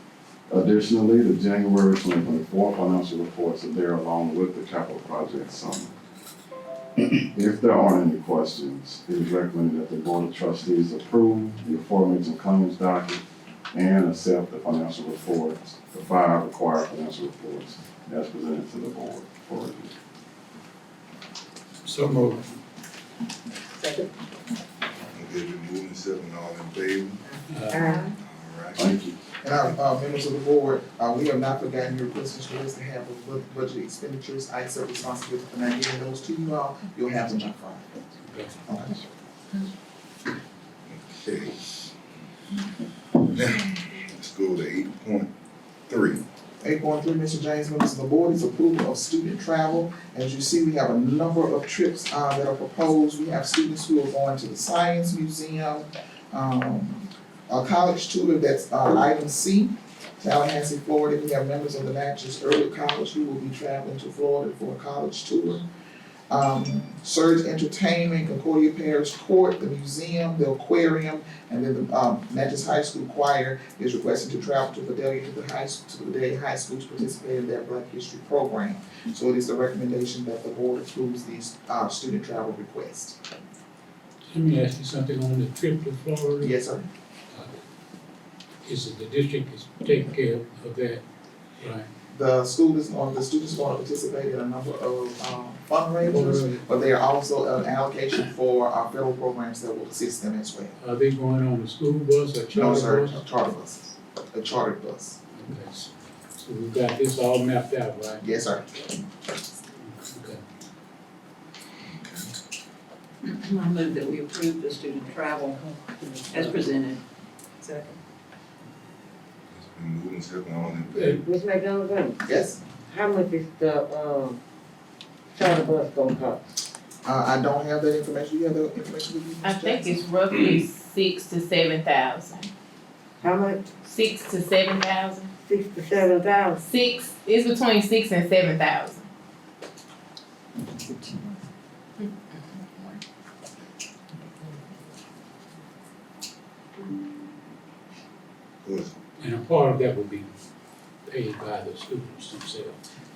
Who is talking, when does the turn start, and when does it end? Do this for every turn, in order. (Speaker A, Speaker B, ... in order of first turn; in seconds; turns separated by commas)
Speaker A: 0.5-5.9, Speaker A: 7.3-13.2, Speaker A: 13.7-19.9, Speaker B: 21.8-22.4, Speaker C: 25.1-27.2, Speaker B: 27.5-27.9, Speaker D: 27.7-28.1, Speaker E: 27.8-28.1, Speaker C: 28.2-28.8, Speaker A: 28.8-29.1, Speaker F: 29.4-37.9, Speaker F: 38.7-39.1, Speaker C: 40.9-41.6, Speaker C: 43.3-45.3, Speaker C: 45.9-46.2, Speaker F: 46.6-65.7, Speaker F: 66.3-83.2, Speaker B: 84.3-86.6, Speaker F: 86.4-86.9, Speaker B: 88.7-91.0, Speaker B: 91.6-91.9, Speaker F: 92.1-100.8, Speaker B: 96.1-96.6, Speaker B: 100.8-103.2, Speaker F: 102.5-105.2, Speaker B: 105.3-108.3, Speaker F: 108.2-109.0, Speaker B: 109.9-110.4, Speaker C: 112.0-112.3, Speaker E: 113.3-115.6, Speaker E: 116.3-117.0, Speaker E: 117.6-118.0, Speaker C: 119.5-121.2, Speaker B: 121.0-121.2, Speaker D: 121.2-122.2, Speaker F: 122.3-122.6, Speaker D: 122.9-124.4, Speaker D: 125.3-126.4, Speaker F: 127.0-130.0, Speaker G: 129.4-132.5, Speaker D: 133.2-133.8, Speaker G: 133.8-135.3, Speaker D: 135.5-136.7, Speaker G: 136.7-139.1, Speaker G: 142.0-143.0, Speaker C: 148.6-148.9, Speaker B: 149.2-150.3, Speaker B: 151.1-152.8